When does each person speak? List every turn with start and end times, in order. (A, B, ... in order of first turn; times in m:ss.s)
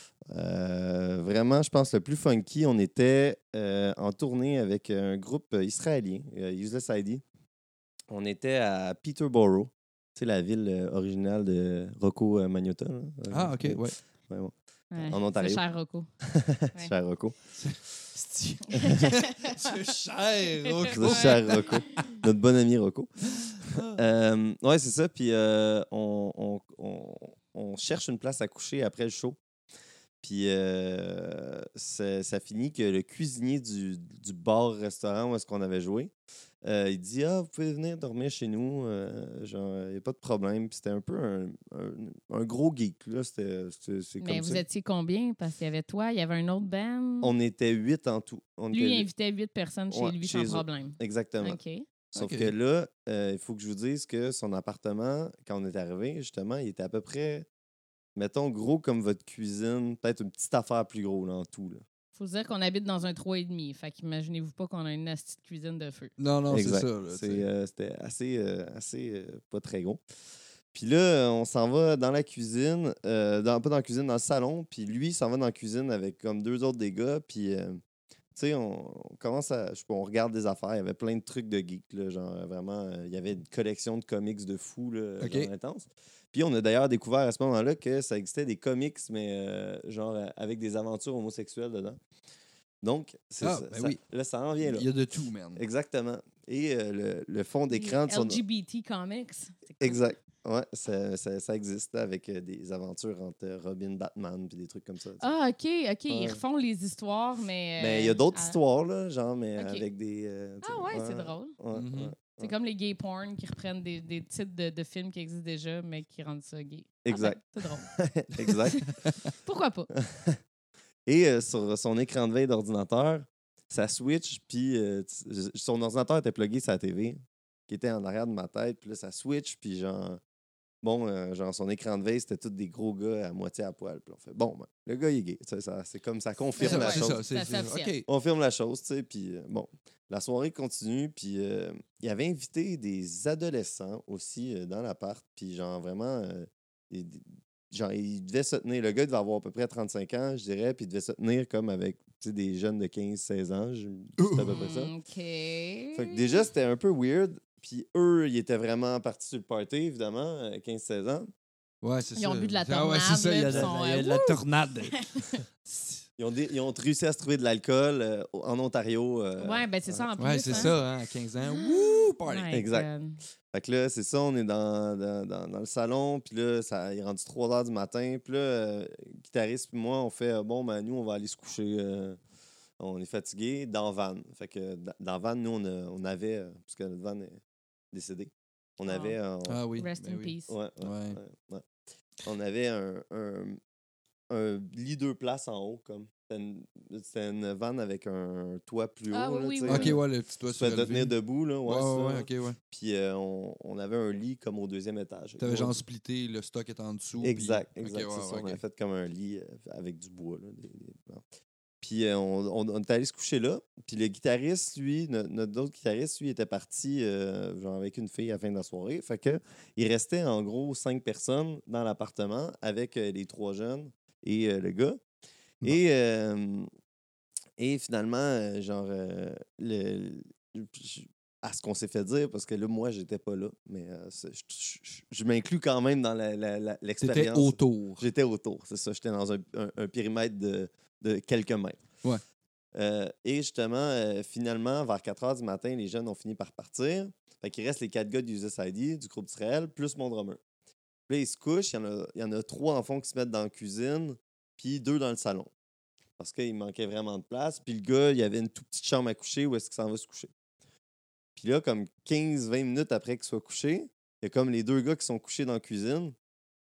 0:00.3-0:07.2 A
0:08.1-0:15.6 A
0:13.3-0:14.0 B
0:14.9-0:16.1 C
0:16.2-0:17.3 A
0:17.6-0:22.1 B
0:18.7-0:19.5 C
0:20.6-0:21.8 C
0:20.9-0:29.4 A
0:23.6-0:24.0 B
0:30.2-0:36.1 A
0:36.6-0:44.6 A
0:44.2-0:47.3 C
0:47.2-0:49.1 A
0:48.7-0:51.8 C
0:49.9-0:51.6 A
0:52.1-0:57.5 A
0:52.1-0:52.5 B
0:58.2-1:01.8 A
1:02.2-1:06.1 C
1:06.2-1:07.5 B
1:06.5-1:10.0 A
1:10.7-1:17.8 A
1:18.3-1:32.0 A
1:25.2-1:25.5 B
1:32.8-1:34.9 A
1:33.4-1:34.0 B
1:34.6-1:35.6 B
1:35.6-1:38.4 A
1:37.7-1:40.1 C
1:39.8-1:45.2 A
1:45.2-1:48.6 C
1:46.1-1:46.4 A
1:47.8-1:52.5 A
1:49.6-1:49.8 C
1:50.6-1:51.6 C
1:51.7-1:52.1 B
1:52.4-1:57.9 C
1:57.0-1:58.8 A
1:59.4-1:59.9 C
1:59.9-2:00.4 A
2:01.0-2:10.2 A
2:10.8-2:17.2 A
2:16.6-2:17.9 C
2:16.6-2:18.0 B
2:18.0-2:34.9 A
2:34.2-2:34.6 B
2:34.5-2:36.4 C
2:35.9-2:41.3 A
2:41.8-2:45.1 B
2:42.2-2:44.4 C
2:43.5-2:43.7 A
2:44.9-2:45.4 C
2:45.7-2:46.0 B
2:46.2-2:50.7 A
2:49.4-2:50.8 C
2:50.2-2:52.5 B
2:51.5-2:53.2 C
2:52.5-2:52.9 A
2:53.5-3:02.2 A
3:02.8-3:07.4 A
3:07.9-3:09.6 A
3:08.8-3:09.2 C
3:09.4-3:11.2 B
3:09.8-3:10.5 C
3:10.5-3:11.6 A
3:12.2-3:13.6 A
3:14.3-3:25.8 A
3:19.1-3:20.0 C
3:19.7-3:21.1 B
3:21.6-3:22.6 B
3:25.4-3:28.6 B
3:27.2-3:31.2 A
3:31.8-3:45.0 A
3:45.6-3:46.7 A
3:47.6-4:01.8 A
3:57.0-3:58.0 B
4:02.7-4:10.4 A
4:11.1-4:15.5 A
4:16.2-4:20.3 A
4:21.4-4:26.1 A